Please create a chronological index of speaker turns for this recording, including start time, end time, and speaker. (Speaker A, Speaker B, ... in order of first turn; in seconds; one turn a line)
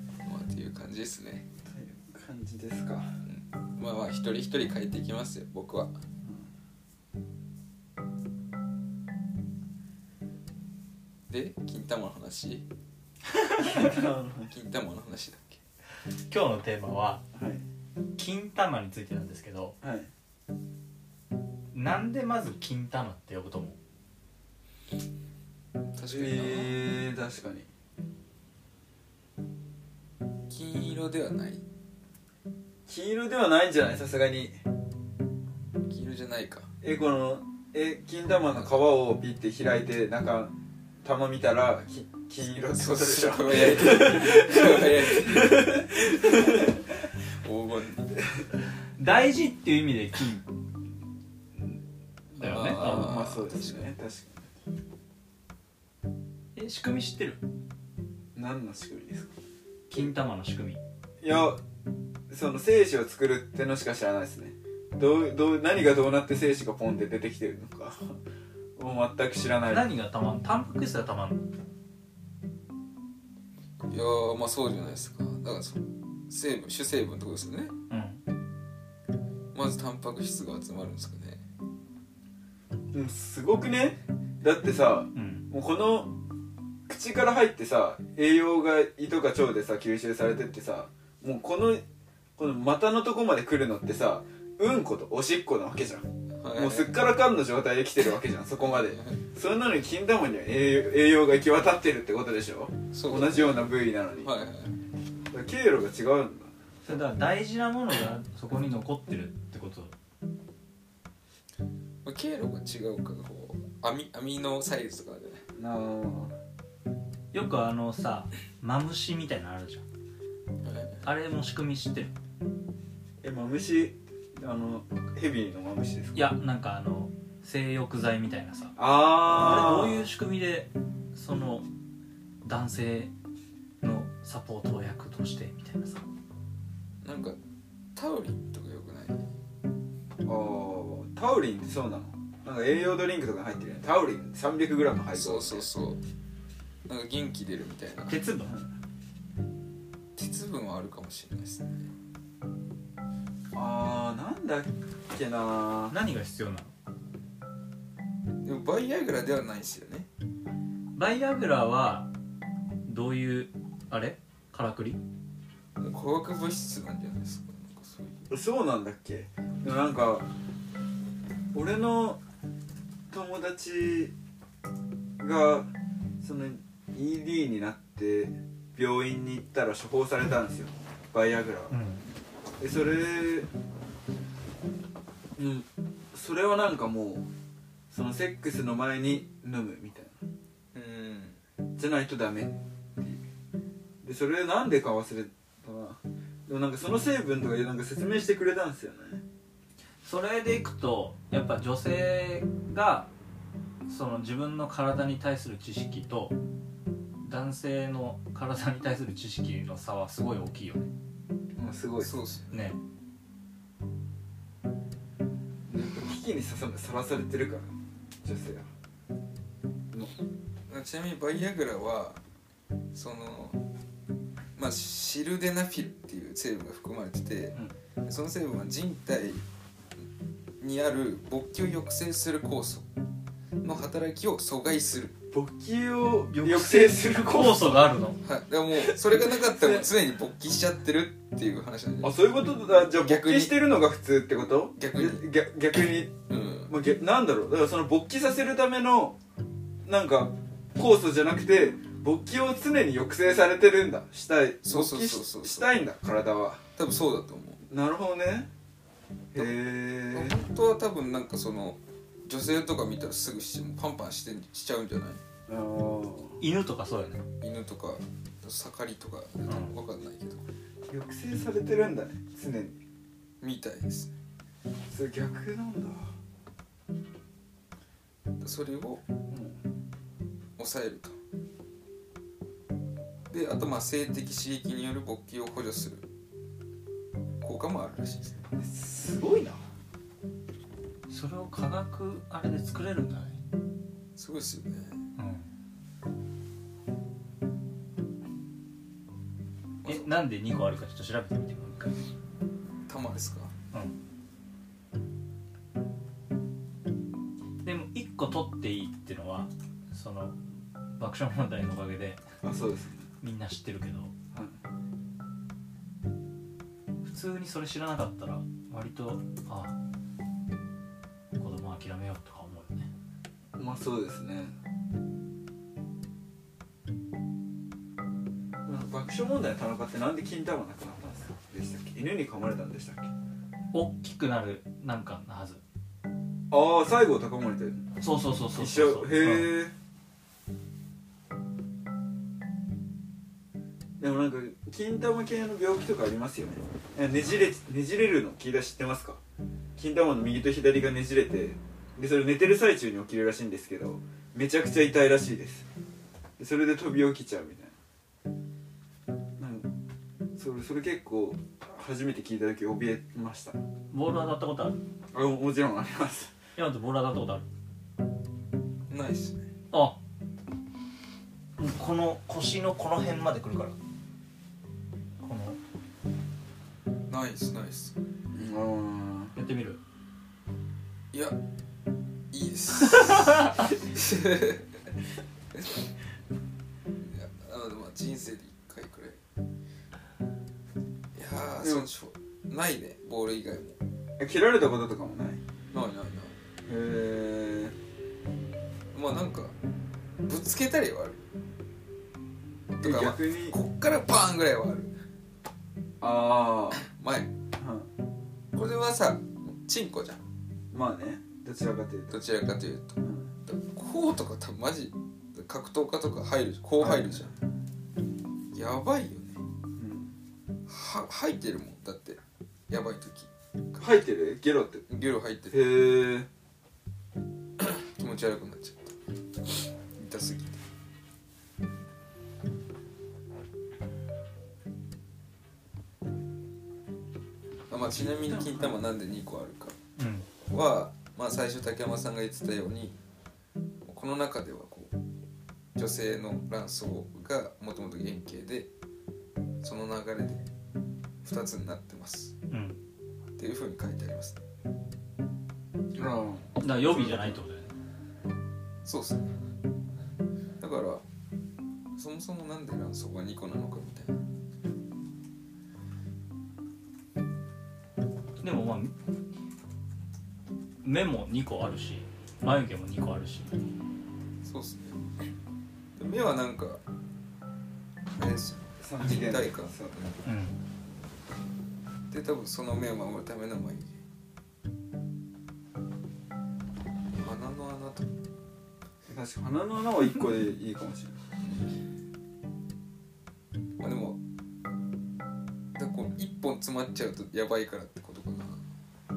Speaker A: 0.2-1.5
Speaker B: 1.7-3.2
Speaker A: 3.3-6.0
Speaker B: 6.2-6.5
Speaker A: 11.3-12.7
Speaker B: 13.6-14.5
Speaker A: 14.5-15.6
Speaker C: 16.3-17.2
Speaker B: 17.3-17.6
Speaker C: 18.2-19.8
Speaker B: 19.8-20.1
Speaker C: 21.7-23.8
Speaker A: 25.9-26.8
Speaker B: 26.1-27.7
Speaker A: 30.5-31.6
Speaker B: 32.9-34.6
Speaker A: 35.9-36.7
Speaker B: 36.8-46.8
Speaker A: 42.6-46.8
Speaker A: 47.4-48.2
Speaker C: 49.0-50.5
Speaker C: 52.4-53.1
Speaker A: 52.4-53.9
Speaker B: 52.5-54.5
Speaker C: 56.5-57.4
Speaker B: 58.4-59.3
Speaker C: 59.9-60.8
Speaker B: 61.2-61.6
Speaker B: 62.3-68.2
Speaker B: 68.8-69.9
Speaker C: 69.7-71.5
Speaker A: 73.9-77.7
Speaker C: 77.9-78.2
Speaker A: 79.5-81.4
Speaker B: 82.9-86.2
Speaker C: 85.1-85.5
Speaker B: 86.9-91.8
Speaker B: 92.4-104.3
Speaker A: 96.4-97.0
Speaker A: 98.6-99.2
Speaker A: 102.9-104.8
Speaker B: 105.3-107.0
Speaker C: 106.9-110.0
Speaker A: 112.0-115.5
Speaker B: 115.6-116.3
Speaker C: 117.3-119.8
Speaker A: 120.6-121.1
Speaker C: 121.0-122.1
Speaker B: 123.2-126.3
Speaker C: 126.2-131.7
Speaker B: 128.8-130.1
Speaker C: 132.4-133.1
Speaker C: 133.8-136.1
Speaker A: 137.0-137.4
Speaker A: 137.9-139.2
Speaker B: 140.2-145.7
Speaker A: 145.1-146.0
Speaker A: 146.9-148.2
Speaker C: 148.1-148.5
Speaker A: 150.2-151.9
Speaker B: 153.5-155.9
Speaker C: 155.9-156.7
Speaker A: 158.4-160.1
Speaker C: 160.9-162.1
Speaker C: 162.9-165.0
Speaker A: 165.8-168.2
Speaker B: 168.3-170.3
Speaker B: 171.5-172.2
Speaker B: 173.1-174.1
Speaker B: 175.2-181.7
Speaker C: 181.7-182.1
Speaker B: 182.6-183.5
Speaker B: 185.4-187.3
Speaker B: 187.9-190.2
Speaker A: 190.7-191.4
Speaker B: 191.8-193.2
Speaker B: 194.0-199.2
Speaker C: 200.0-203.1
Speaker C: 203.9-206.4
Speaker C: 207.2-210.9
Speaker B: 211.6-212.2
Speaker A: 212.0-212.8
Speaker C: 212.5-212.8
Speaker B: 215.7-217.7
Speaker B: 218.2-218.7
Speaker A: 220.7-222.2
Speaker A: 222.9-223.6
Speaker A: 224.6-229.4
Speaker A: 230.6-232.9
Speaker A: 233.6-235.2
Speaker B: 235.3-237.8
Speaker C: 236.3-238.2
Speaker A: 238.2-242.2
Speaker B: 238.9-239.9
Speaker B: 242.0-249.2
Speaker A: 243.0-243.6
Speaker A: 244.8-245.2
Speaker A: 246.3-246.7
Speaker B: 249.8-256.6
Speaker A: 254.6-255.7
Speaker A: 256.8-257.6
Speaker B: 257.7-258.5
Speaker B: 259.3-260.4
Speaker A: 259.4-265.2
Speaker B: 265.5-266.4
Speaker C: 266.4-267.2
Speaker A: 267.4-270.4
Speaker C: 269.5-269.7
Speaker B: 270.9-272.8
Speaker A: 273.4-274.1
Speaker B: 274.9-276.1
Speaker A: 278.4-279.0
Speaker B: 279.3-279.6
Speaker A: 280.6-281.2
Speaker A: 283.3-286.1
Speaker A: 287.4-288.4
Speaker B: 288.6-289.6
Speaker C: 291.1-293.4
Speaker A: 294.2-295.0
Speaker C: 295.2-295.5
Speaker A: 299.8-300.1
Speaker C: 299.9-302.0
Speaker A: 302.9-303.5
Speaker C: 307.6-310.4
Speaker C: 311.0-312.2
Speaker B: 312.4-313.1
Speaker C: 313.2-314.1
Speaker C: 317.0-319.8
Speaker C: 321.4-322.9
Speaker B: 323.6-324.6
Speaker B: 328.6-333.1
Speaker C: 333.7-335.6
Speaker B: 336.5-337.9
Speaker C: 338.0-339.5
Speaker B: 338.6-339.7
Speaker B: 344.0-349.2
Speaker B: 349.8-355.6
Speaker B: 356.4-357.7
Speaker B: 359.4-359.7
Speaker B: 360.4-363.6
Speaker C: 363.9-364.8
Speaker B: 365.1-366.3
Speaker C: 366.6-367.5
Speaker A: 368.9-369.5
Speaker C: 369.7-370.0
Speaker C: 371.6-373.8
Speaker C: 375.2-375.6
Speaker A: 377.1-377.9
Speaker B: 378.3-379.4
Speaker C: 379.4-379.8
Speaker A: 381.1-381.4
Speaker A: 382.3-384.7
Speaker A: 385.5-385.8
Speaker A: 387.0-389.2
Speaker A: 391.1-393.8
Speaker B: 391.6-391.9
Speaker B: 394.2-395.4
Speaker A: 395.7-396.4
Speaker B: 396.7-397.8
Speaker A: 398.9-399.6
Speaker A: 400.2-401.2
Speaker A: 402.8-404.9
Speaker B: 402.8-403.6
Speaker B: 406.0-406.9
Speaker A: 406.8-407.3
Speaker B: 407.6-407.9
Speaker A: 408.5-410.2
Speaker B: 410.7-412.2
Speaker A: 412.1-417.3
Speaker B: 413.0-413.3
Speaker B: 416.8-417.4
Speaker A: 418.5-419.4
Speaker B: 419.8-420.1
Speaker A: 420.7-423.3
Speaker B: 423.8-424.9
Speaker A: 424.9-425.6
Speaker B: 425.5-426.3
Speaker A: 427.6-429.0
Speaker A: 430.0-430.6
Speaker A: 437.7-439.8
Speaker B: 437.8-438.8
Speaker C: 440.0-440.3
Speaker A: 440.5-442.9
Speaker A: 443.8-444.9
Speaker A: 445.8-448.7
Speaker A: 449.6-450.4
Speaker A: 451.2-452.4
Speaker C: 452.5-452.8
Speaker A: 453.4-454.4
Speaker B: 455.9-457.4
Speaker C: 456.6-457.7
Speaker A: 458.9-459.3
Speaker A: 460.6-461.0
Speaker A: 462.0-464.2
Speaker C: 468.4-468.9
Speaker C: 470.8-473.6
Speaker A: 474.4-475.3
Speaker A: 476.0-476.8
Speaker A: 478.2-479.8
Speaker B: 478.8-480.1
Speaker C: 480.2-480.6
Speaker A: 482.1-483.9
Speaker A: 487.2-488.1
Speaker B: 489.1-491.2
Speaker A: 491.4-491.7
Speaker A: 493.8-494.2
Speaker A: 495.7-498.6